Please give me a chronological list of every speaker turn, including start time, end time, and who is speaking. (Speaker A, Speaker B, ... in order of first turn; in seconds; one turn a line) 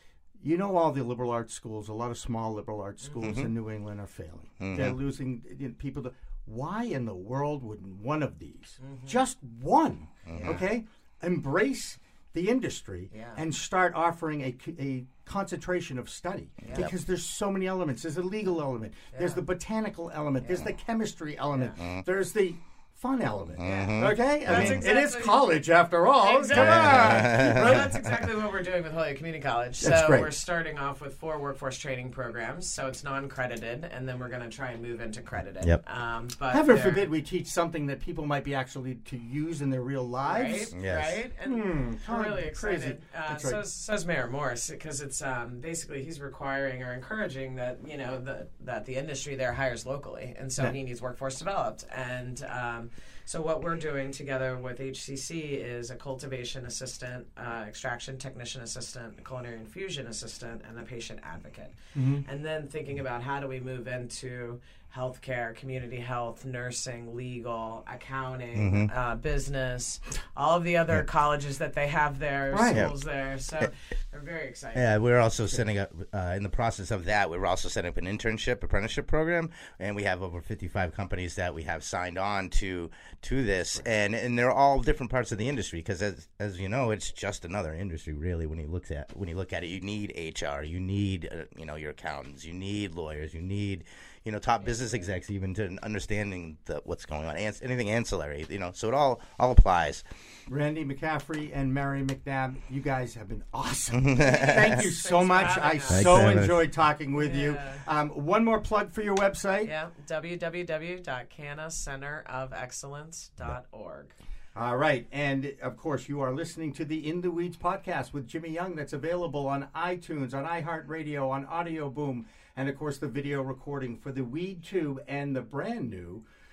Speaker A: 0.4-27.9
Speaker B: 3.0-3.4
Speaker C: 3.2-3.5
Speaker C: 4.6-5.0
Speaker B: 8.8-9.2
Speaker C: 10.3-10.6
Speaker B: 10.3-10.7
Speaker B: 13.1-13.4
Speaker B: 16.6-16.9
Speaker B: 19.1-19.5
Speaker B: 21.5-21.8
Speaker C: 23.6-24.9
Speaker B: 23.6-25.6
Speaker B: 26.2-37.1
Speaker C: 26.5-28.1
Speaker A: 29.8-30.3
Speaker A: 36.5-40.7
Speaker B: 40.2-75.0
Speaker C: 40.7-41.2
Speaker A: 41.4-43.6
Speaker A: 62.0-62.2
Speaker C: 68.5-68.9
Speaker A: 72.5-72.9
Speaker C: 74.8-100.0
Speaker B: 94.6-95.1
Speaker A: 100.5-109.7
Speaker C: 103.9-104.9
Speaker B: 104.2-106.2
Speaker C: 105.9-106.7
Speaker B: 107.2-107.8
Speaker B: 109.6-114.2
Speaker A: 114.5-126.2